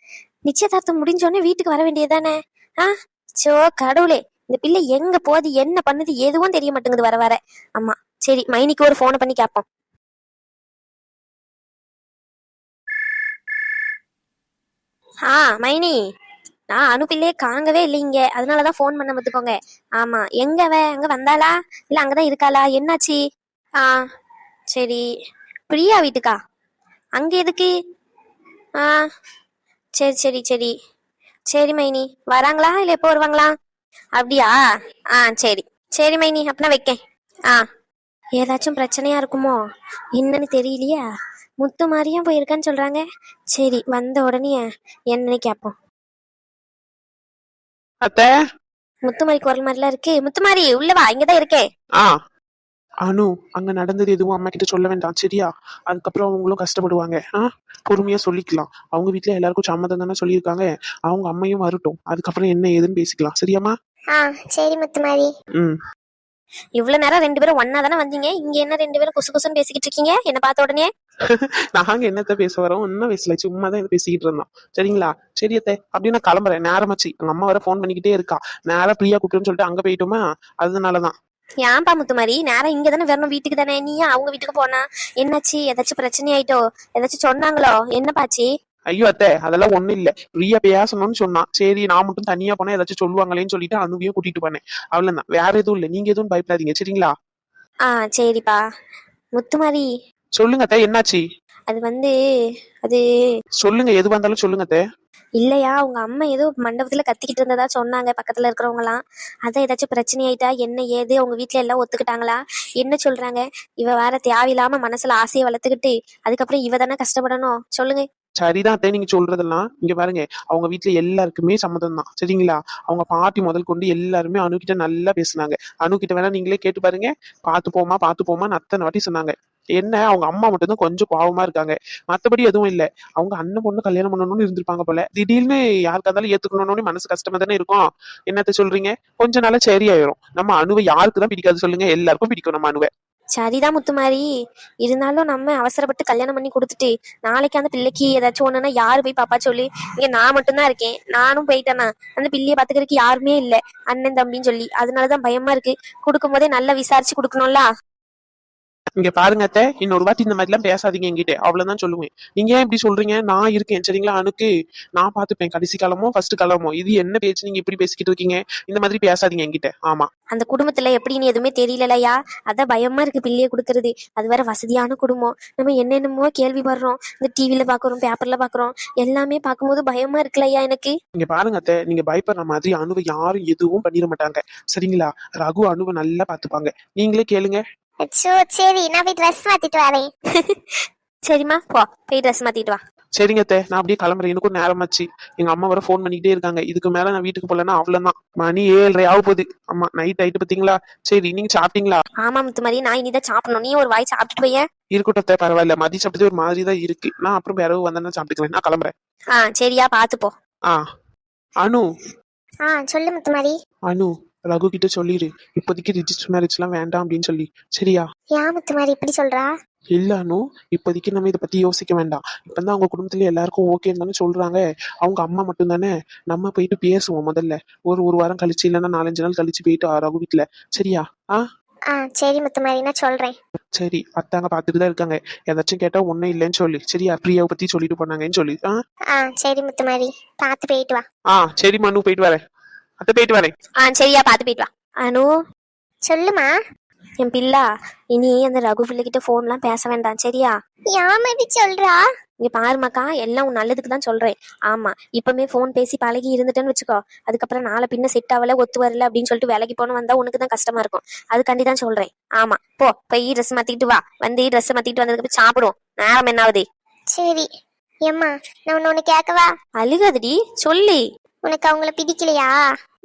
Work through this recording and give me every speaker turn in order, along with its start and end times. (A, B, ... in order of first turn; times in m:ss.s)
0:00.5-0:02.9 A
0:03.4-0:09.6 A
0:15.3-0:16.0 A
0:16.7-0:23.2 A
0:24.7-0:25.0 A
0:25.7-0:26.3 A
0:27.2-0:27.7 A
0:30.0-0:30.7 A
0:31.5-0:33.5 A
0:34.2-0:34.6 A
0:35.2-0:37.0 A
0:38.4-0:39.6 A
0:40.2-0:41.0 A
0:41.6-0:43.0 A
0:43.6-0:45.7 A
0:48.0-0:48.3 B
0:49.1-0:51.6 A
0:53.0-1:03.7 B
1:04.2-1:05.3 C
1:06.8-1:10.9 A
1:11.3-1:21.1 B
1:21.6-1:28.5 A
1:28.9-1:37.1 B
1:37.9-1:38.6 A
1:39.4-1:39.9 A
1:40.4-1:41.2 B
1:41.7-1:42.1 A
1:43.6-1:44.8 B
1:45.4-1:58.0 A
1:58.4-2:22.9 B
2:23.4-2:24.2 A
2:24.8-2:37.7 A
2:39.0-2:50.1 B
2:50.3-3:00.9 A
3:01.2-3:07.6 B
3:08.0-3:10.1 C
3:11.3-3:12.8 A
3:13.2-3:22.0 B
3:22.2-3:24.6 A
3:25.0-3:28.9 B
3:29.3-3:30.3 A
3:32.7-3:33.5 C
3:33.9-3:38.0 B
3:38.4-3:39.5 C
3:40.0-3:51.4 B
3:51.9-3:53.3 C
3:53.8-3:58.8 B
3:59.1-4:01.0 C
4:01.3-4:02.4 B
4:03.0-4:03.5 B
4:03.8-4:05.3 A
4:06.1-4:06.5 C
4:07.2-4:10.5 A
4:10.9-4:12.0 C
4:12.4-4:26.6 A
4:27.1-4:27.5 C
4:28.1-4:29.5 C
4:29.8-4:31.0 A
4:31.4-4:32.5 C